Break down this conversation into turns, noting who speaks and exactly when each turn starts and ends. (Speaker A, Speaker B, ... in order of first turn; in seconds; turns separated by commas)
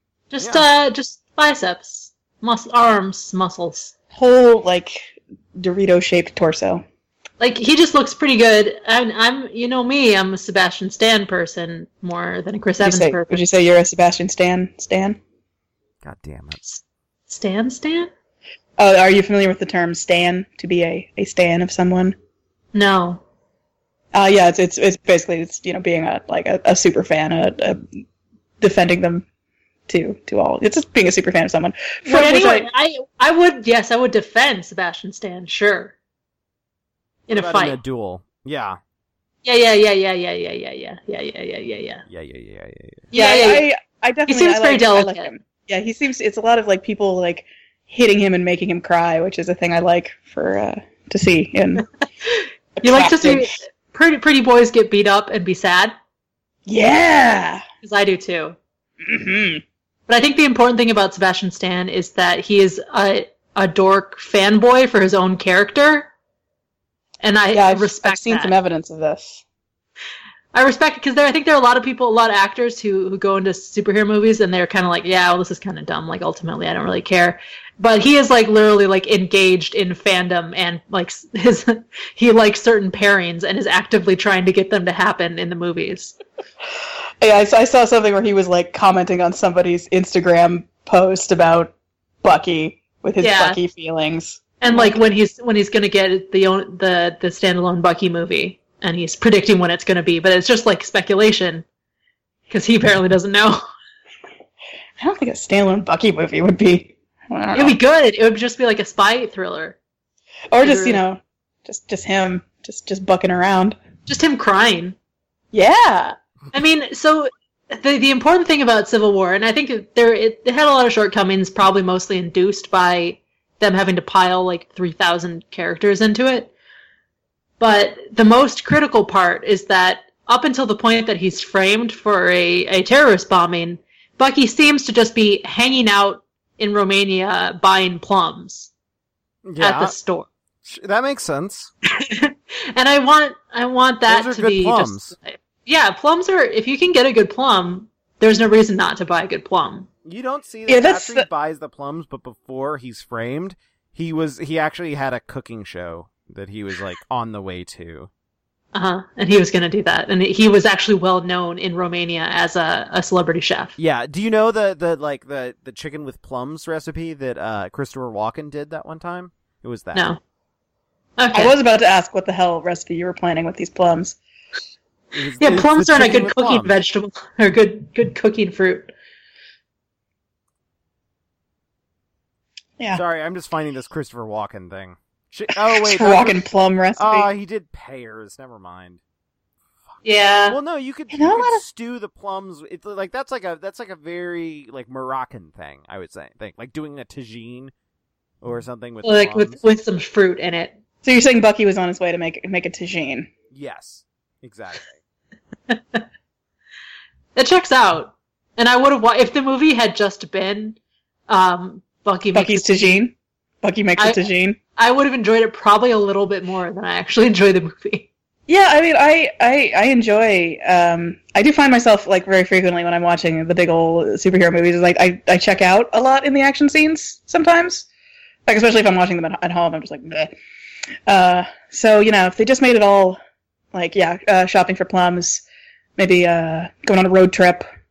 Speaker A: 0.3-3.9, Speaker B: 4.1-6.8, Speaker A: 7.4-13.4, Speaker B: 12.8-15.2, Speaker C: 16.0-16.6, Speaker A: 16.6-18.1, Speaker B: 18.8-22.1, Speaker A: 22.7-23.2, Speaker B: 24.1-27.9, Speaker B: 28.6-29.2, Speaker B: 29.9-32.7, Speaker A: 32.0-35.9, Speaker A: 37.3-37.8, Speaker C: 37.3-38.8, Speaker A: 39.4-42.0, Speaker C: 42.1-43.1, Speaker A: 43.1-43.7, Speaker B: 43.1-51.8, Speaker A: 44.3-45.3, Speaker A: 52.2-55.9, Speaker B: 52.8-53.5, Speaker B: 56.6-57.6, Speaker A: 57.8-58.6, Speaker B: 59.0-59.6, Speaker A: 60.1-66.1, Speaker A: 67.2-68.5, Speaker B: 67.5-69.4, Speaker A: 70.5-86.2, Speaker B: 87.2-95.0, Speaker A: 93.2-93.6, Speaker A: 94.6-101.6, Speaker A: 102.5-103.6, Speaker B: 105.0-107.8, Speaker A: 107.5-109.8, Speaker B: 110.5-113.8, Speaker A: 110.6-111.0, Speaker A: 114.1-115.0, Speaker B: 115.5-116.2, Speaker A: 116.5-126.5, Speaker A: 127.6-138.7, Speaker C: 139.4-139.9, Speaker A: 139.6-140.3, Speaker C: 140.6-141.7, Speaker A: 141.9-149.9, Speaker C: 144.1-145.1, Speaker C: 150.0-158.1, Speaker B: 150.7-151.3, Speaker A: 158.7-163.7, Speaker C: 163.8-170.1, Speaker A: 169.9-170.2, Speaker A: 171.2-171.5, Speaker B: 171.3-174.2, Speaker C: 175.1-176.7, Speaker A: 175.4-178.9, Speaker C: 182.9-186.4, Speaker B: 185.7-187.3, Speaker C: 187.0-189.0, Speaker A: 190.0-190.6, Speaker C: 190.5-197.7, Speaker B: 191.1-191.6, Speaker C: 198.4-199.6, Speaker A: 199.0-200.8, Speaker B: 201.0-203.3, Speaker C: 203.5-205.0, Speaker A: 205.7-206.0, Speaker A: 207.3-210.8, Speaker A: 211.3-213.0, Speaker B: 212.3-214.6, Speaker A: 214.8-218.1, Speaker B: 218.5-227.9, Speaker B: 228.5-230.3, Speaker B: 231.1-233.2, Speaker B: 233.7-235.4, Speaker B: 236.0-237.6